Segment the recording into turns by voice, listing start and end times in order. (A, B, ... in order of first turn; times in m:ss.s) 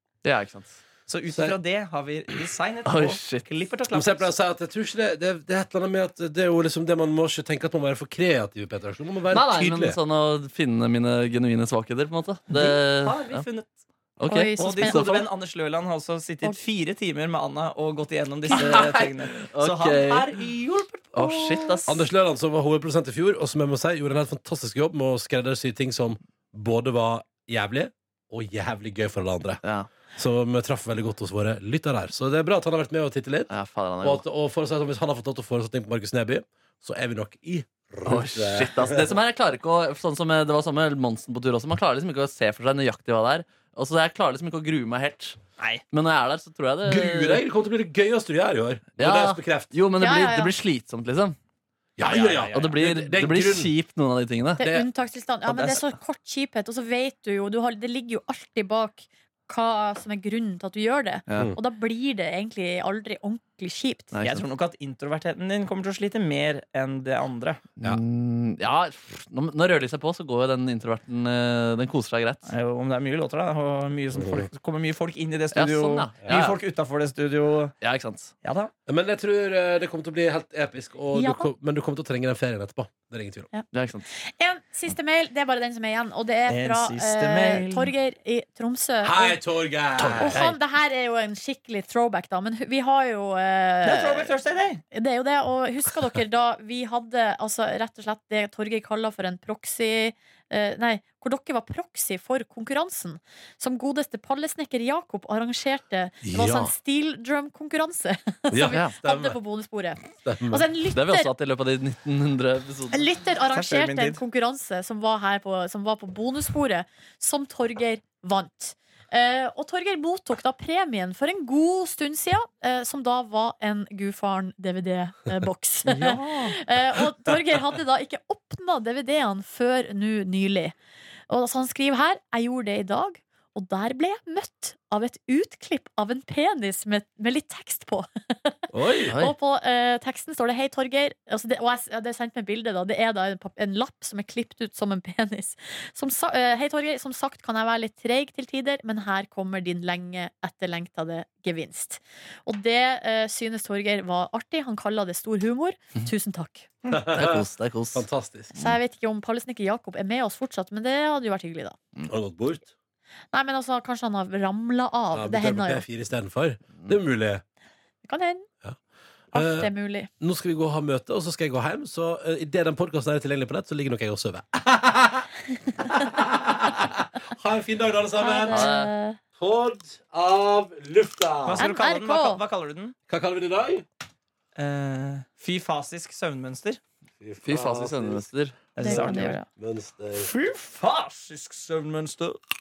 0:00.2-0:00.8 A
0:01.1-0:04.3 B
0:02.9-0:03.4 A
0:03.9-0:10.0 C
0:09.3-0:13.4 A
0:12.5-0:13.8 B
0:14.2-0:15.3 A
0:14.3-0:15.2 D
0:14.6-0:21.8 B
0:18.5-0:20.4 A
0:21.1-0:22.0 A
0:21.9-0:29.6 C
0:29.6-0:29.9 A
0:30.2-0:33.5 C
0:33.5-0:34.2 A
0:34.0-0:39.1 C
0:38.0-0:45.4 A
0:45.9-0:47.4 A
0:46.8-0:49.7 C
0:49.0-0:51.4 A
0:50.0-0:50.5 D
0:52.0-0:53.7 C
0:52.0-0:52.8 B
0:52.6-0:54.6 A
0:54.6-0:54.9 C
0:54.6-1:04.2 D
0:55.5-0:55.8 B
1:01.3-1:01.5 A
1:01.3-1:01.6 C
1:04.1-1:04.4 A
1:04.2-1:07.6 B
1:07.8-1:12.5 A
1:12.5-1:17.8 B
1:14.1-1:14.5 C
1:15.5-1:16.6 A
1:17.8-1:18.4 A
1:18.4-1:18.7 B
1:18.9-1:23.5 C
1:21.1-1:21.5 D
1:23.5-1:29.4 D
1:23.7-1:24.1 A
1:26.5-1:27.9 B
1:29.0-1:30.5 C
1:30.0-1:30.6 A
1:30.2-1:34.3 D
1:33.8-1:34.8 B
1:34.9-1:51.3 D
1:46.2-1:46.7 C
1:48.5-1:49.4 C
1:50.2-1:50.7 C
1:50.9-1:53.1 A
1:52.9-2:10.8 D
1:53.5-1:54.2 B
2:05.8-2:06.6 B
2:11.3-2:36.7 D
2:18.7-2:19.2 C
2:36.9-2:38.5 C
2:37.1-2:38.1 A
2:38.6-2:41.8 D
2:42.0-2:42.7 C
2:43.3-2:45.8 D
2:45.1-2:47.4 C
2:48.0-2:48.5 D
2:49.3-2:50.1 D
2:49.3-2:58.7 C
2:58.2-2:59.2 D
2:58.5-2:58.9 A
2:59.4-3:01.7 C
3:01.4-3:03.0 B
3:01.6-3:02.4 D
3:03.1-3:03.8 C
3:04.6-3:06.8 B
3:07.2-3:08.3 C
3:07.4-3:09.3 A
3:08.8-3:09.4 B
3:08.8-3:09.5 D
3:09.5-3:10.3 C
3:10.1-3:12.4 B